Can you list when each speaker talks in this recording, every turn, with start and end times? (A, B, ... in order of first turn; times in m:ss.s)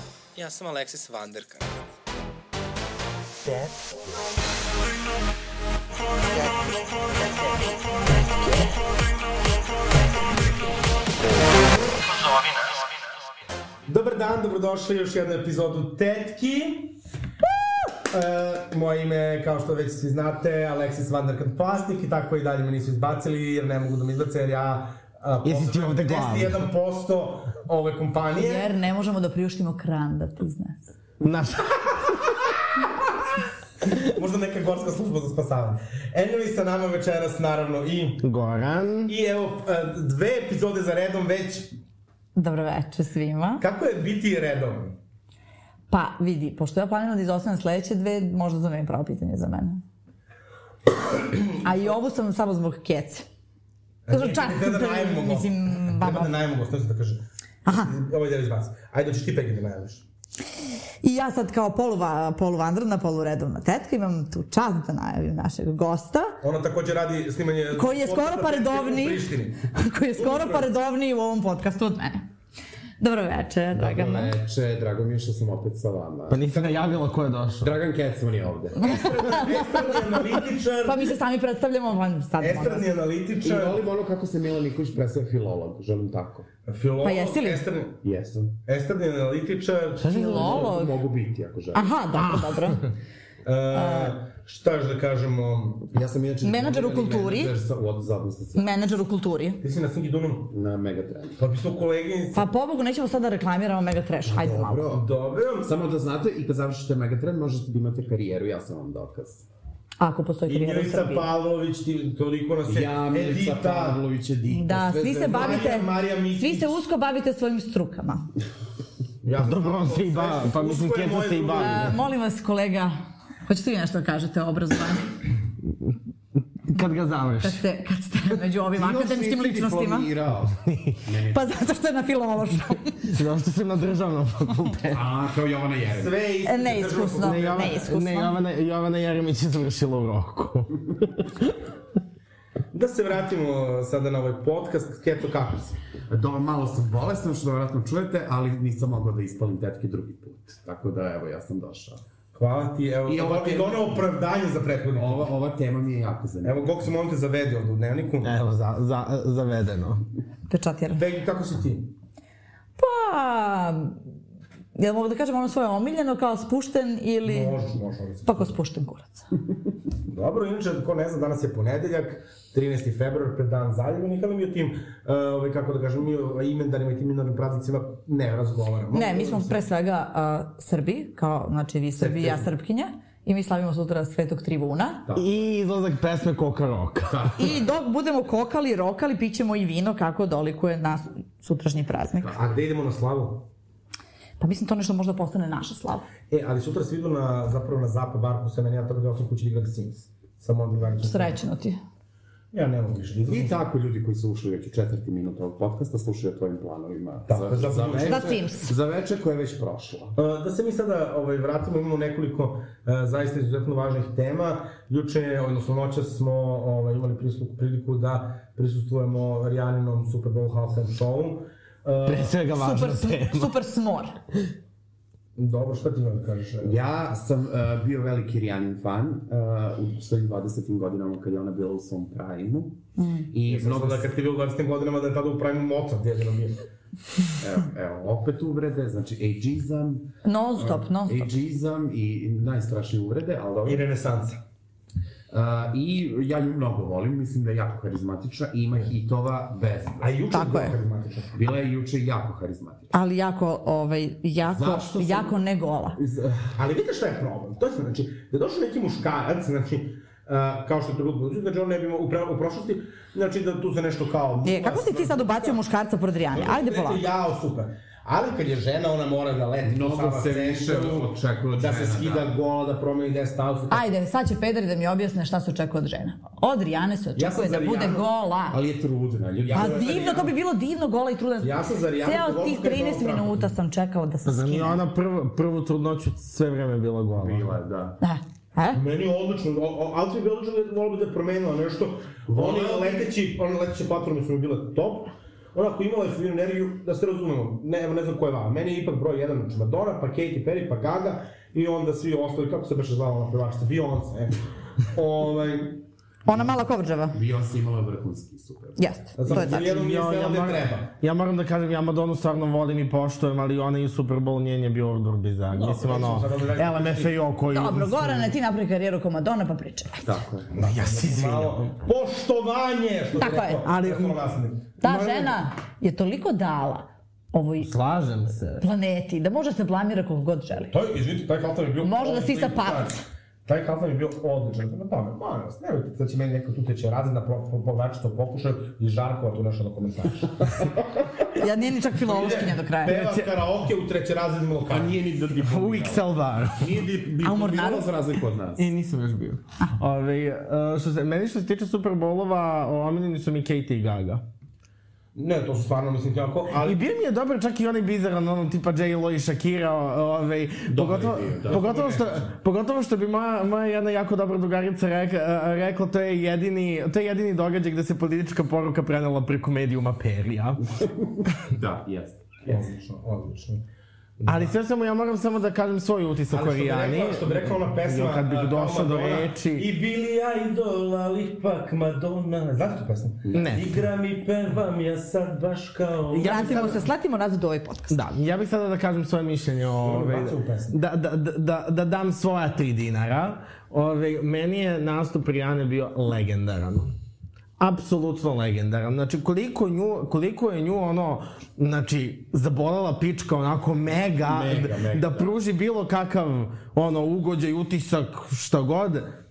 0:00.3-0:01.8 A
0:03.4-0:03.7 B
0:13.9-0:16.9 A
0:18.1-0:28.7 A
0:25.4-0:26.6 B
0:28.3-0:30.9 C
0:31.2-0:31.9 B
0:34.0-0:38.2 A
0:38.2-0:39.1 B
0:39.0-0:41.7 A
0:42.4-0:43.6 C
0:43.6-0:45.0 A
0:45.9-0:49.8 C
0:51.3-0:51.9 A
0:51.6-0:53.2 C
0:54.0-0:57.2 A
0:54.1-0:56.3 C
0:57.6-0:57.9 C
0:57.8-1:00.0 A
1:01.0-1:06.4 C
1:06.4-1:10.7 A
1:07.7-1:12.2 C
1:13.0-1:14.3 C
1:13.7-1:16.4 D
1:16.3-1:17.7 B
1:16.5-1:17.0 A
1:17.6-1:19.0 D
1:18.8-1:20.2 C
1:18.8-1:21.1 A
1:20.8-1:22.9 C
1:22.4-1:23.8 A
1:23.4-1:26.5 D
1:26.7-1:28.0 A
1:27.0-1:27.6 C
1:28.0-1:28.5 D
1:28.6-1:30.7 A
1:30.0-1:31.0 C
1:30.0-1:31.9 D
1:31.7-1:32.8 C
1:33.4-1:35.8 A
1:33.7-1:34.2 C
1:35.9-1:38.8 D
1:36.4-1:37.5 C
1:38.5-1:39.6 C
1:39.6-1:40.5 A
1:40.5-1:41.4 D
1:41.4-1:42.5 A
1:42.3-1:44.9 C
1:44.2-1:45.0 D
1:44.9-1:45.7 A
1:45.6-1:49.4 D
1:50.0-1:51.3 C
1:50.5-1:54.0 A
1:52.6-1:55.7 D
1:54.5-1:58.3 C
1:55.0-1:56.8 A
1:59.2-2:02.0 A
1:59.4-2:02.0 B
2:01.5-2:02.9 C
2:03.5-2:05.1 C
2:06.6-2:07.6 B
2:07.4-2:10.1 C
2:08.7-2:11.5 D
2:10.6-2:11.0 B
2:11.3-2:13.0 C
2:13.0-2:15.0 B
2:14.9-2:16.2 D
2:15.9-2:17.8 A
2:16.4-2:18.4 C
2:17.2-2:21.6 B
2:22.7-2:25.8 A
2:26.1-2:32.0 D
2:32.3-2:35.3 A
2:33.0-2:33.9 D
2:35.0-2:36.8 D
2:36.4-2:38.4 A
2:38.2-2:40.0 B
2:40.5-2:41.0 C
2:41.0-2:41.9 A
2:42.8-2:44.0 C
2:44.7-2:47.6 C
2:47.2-2:48.6 A
2:48.2-2:49.2 C
2:50.1-2:59.6 A
2:58.9-3:05.0 C
3:05.2-3:07.3 B
3:07.1-3:07.6 D
3:07.4-3:12.3 C
3:12.2-3:12.6 D
3:12.3-3:13.4 A
3:14.4-3:16.0 C
3:16.3-3:21.4 A
3:21.0-3:21.8 C
3:22.5-3:23.6 A
3:23.2-3:30.2 D
3:27.3-3:28.4 A
3:28.0-3:28.7 C
3:30.2-3:42.4 A
3:42.0-3:43.5 B
3:42.5-3:44.2 C
3:45.4-3:46.9 A
3:46.6-3:52.8 D
3:53.0-3:53.3 C
3:53.3-3:54.1 D
3:53.5-3:56.6 A
3:57.4-4:03.8 D
4:00.2-4:01.3 C
4:03.6-4:04.4 A
4:05.3-4:10.2 D
4:10.0-4:11.3 A
4:10.3-4:10.8 C
4:11.3-4:12.9 D
4:12.9-4:16.0 C
4:14.4-4:15.4 D
4:16.0-4:16.6 D
4:16.6-4:25.6 A
4:24.4-4:27.0 C
4:26.3-4:33.8 A
4:29.6-4:32.3 D
4:33.7-4:38.6 C
4:37.2-4:38.0 A
4:38.5-4:39.9 D
4:39.4-4:40.3 A
4:39.5-4:44.8 C
4:41.4-4:43.5 A
4:44.2-4:47.5 B
4:47.1-4:48.0 D
4:48.0-4:48.8 C
4:48.7-5:04.4 A
4:52.3-4:53.0 D
5:04.9-5:05.8 A
5:06.2-5:07.2 C
5:07.1-5:08.9 D
5:08.8-5:09.7 C
5:09.2-5:10.9 A
5:09.3-5:18.3 B
5:15.5-5:17.2 A
5:17.5-5:20.1 C
5:20.0-5:20.5 D
5:20.5-5:24.8 A
5:20.6-5:21.6 B
5:23.2-5:23.6 C
5:23.6-5:24.2 B
5:24.8-5:27.7 C
5:24.8-5:25.3 B
5:27.6-5:28.6 B
5:28.6-5:30.7 C
5:30.7-5:32.9 A
5:31.8-5:33.0 C
5:33.4-5:40.6 A
5:41.4-5:43.0 C
5:42.0-5:45.0 A
5:42.8-5:43.4 B
5:44.7-5:48.7 D
5:45.4-5:46.8 B
5:47.2-5:47.9 C
5:48.6-5:54.2 B
5:55.1-5:56.8 A
5:56.5-6:10.7 B
6:00.7-6:01.7 D
6:01.4-6:02.3 A
6:10.8-6:12.7 D
6:12.4-6:13.6 A
6:14.2-6:14.5 A
6:14.2-6:19.7 B
6:16.3-6:26.8 A
6:23.2-6:23.7 D
6:23.3-6:23.7 B
6:26.1-6:28.0 C
6:27.9-6:36.9 B
6:29.7-6:30.8 A
6:37.6-6:49.1 B
6:44.2-6:45.3 D